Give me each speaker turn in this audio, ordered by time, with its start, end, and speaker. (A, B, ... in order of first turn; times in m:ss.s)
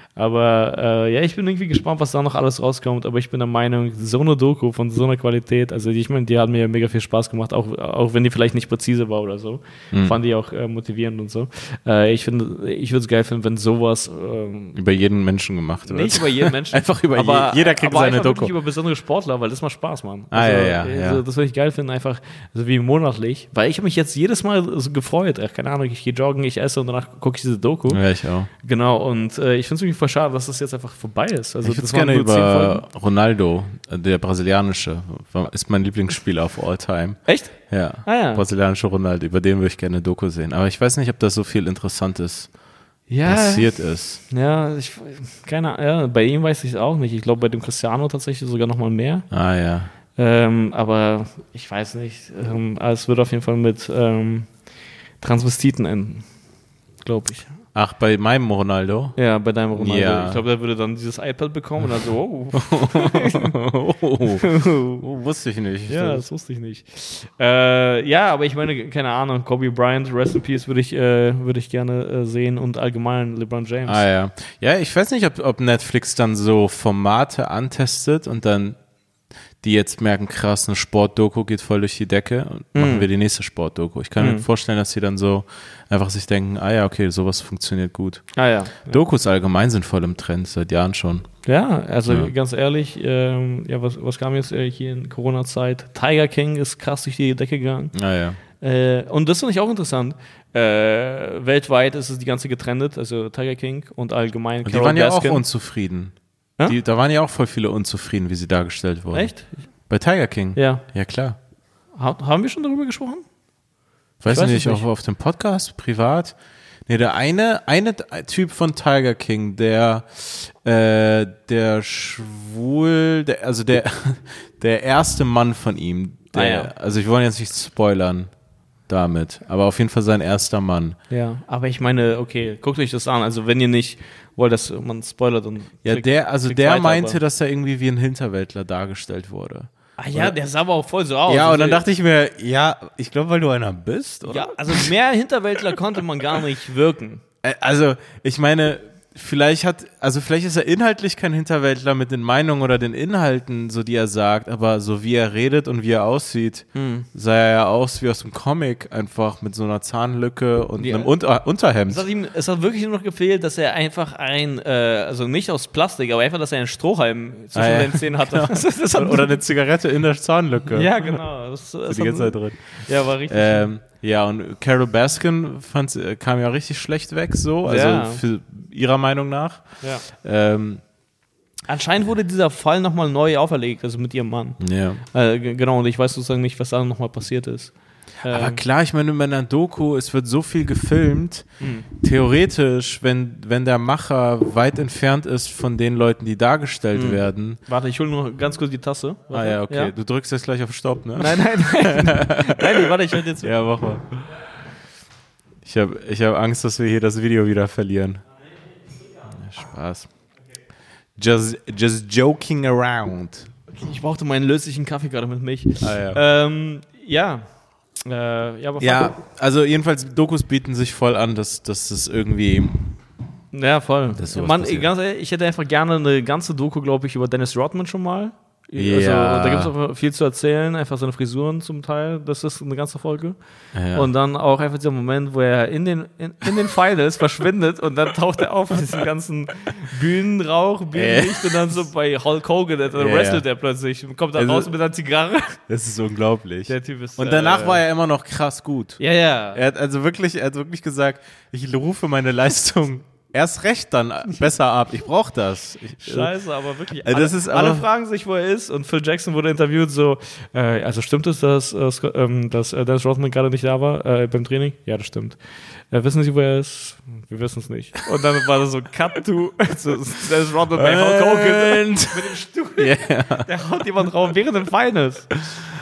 0:00.2-0:14.8 A
0:09.9-0:10.2 B
0:14.7-0:18.5 B
0:15.8-0:28.0 A
0:20.3-0:21.2 B
0:27.9-0:28.5 B
0:28.6-0:32.8 A
0:31.6-0:42.5 B
0:37.3-0:38.4 A
0:43.1-0:49.3 A
0:43.2-0:44.2 B
0:49.3-0:49.9 B
0:50.2-0:54.5 A
0:55.2-0:56.3 A
0:57.0-0:57.5 A
0:57.7-0:59.2 B
0:59.2-1:03.6 A
0:59.7-1:00.4 B
1:02.6-1:06.2 B
1:04.4-1:05.0 A
1:05.9-1:14.0 A
1:13.9-1:18.8 B
1:19.6-1:31.3 B
1:22.7-1:23.1 A
1:24.2-1:24.4 A
1:28.4-1:29.0 A
1:31.4-1:37.9 A
1:37.9-1:38.4 B
1:38.6-1:45.4 A
1:44.6-1:46.1 B
1:46.6-1:49.3 B
1:49.1-1:49.5 A
1:49.9-1:51.4 B
1:50.5-1:50.8 A
1:52.0-1:53.2 A
1:54.2-1:56.4 B
1:54.3-1:54.8 A
1:56.9-2:08.3 B
2:06.3-2:06.7 A
2:08.9-2:11.0 B
2:11.1-2:17.2 A
2:15.8-2:20.4 B
2:20.0-2:21.8 A
2:21.3-2:24.9 B
2:24.2-2:27.2 A
2:27.4-2:42.0 B
2:36.7-2:37.1 A
2:40.8-2:41.1 A
2:41.9-2:49.4 A
2:47.5-2:51.2 B
2:50.7-2:53.7 A
2:51.8-2:52.7 B
2:53.3-3:00.8 B
2:57.6-2:58.2 A
3:01.7-3:04.6 A
3:04.6-3:05.0 B
3:05.1-3:07.7 A
3:08.2-3:08.6 A
3:08.2-3:17.6 B
3:11.6-3:11.9 A
3:16.9-3:19.9 A
3:19.3-3:24.1 B
3:21.2-3:23.5 A
3:25.6-3:28.2 B
3:29.3-3:30.1 B
3:31.2-3:33.5 B
3:33.7-3:37.4 A
3:35.8-3:36.2 B
3:38.0-3:39.1 A
3:38.8-3:43.0 B
3:43.5-3:53.4 A
3:44.2-3:44.9 B
3:48.8-3:49.7 B
3:53.7-3:54.1 B
3:53.9-4:05.6 A
4:00.9-4:01.8 B
4:03.0-4:03.4 B
4:04.4-4:04.7 B
4:05.7-4:09.0 B
4:06.7-4:07.8 A
4:09.0-4:09.6 A
4:09.5-4:16.3 B
4:16.0-4:25.4 A
4:17.0-4:17.8 B
4:25.9-4:35.3 A
4:30.8-4:33.5 B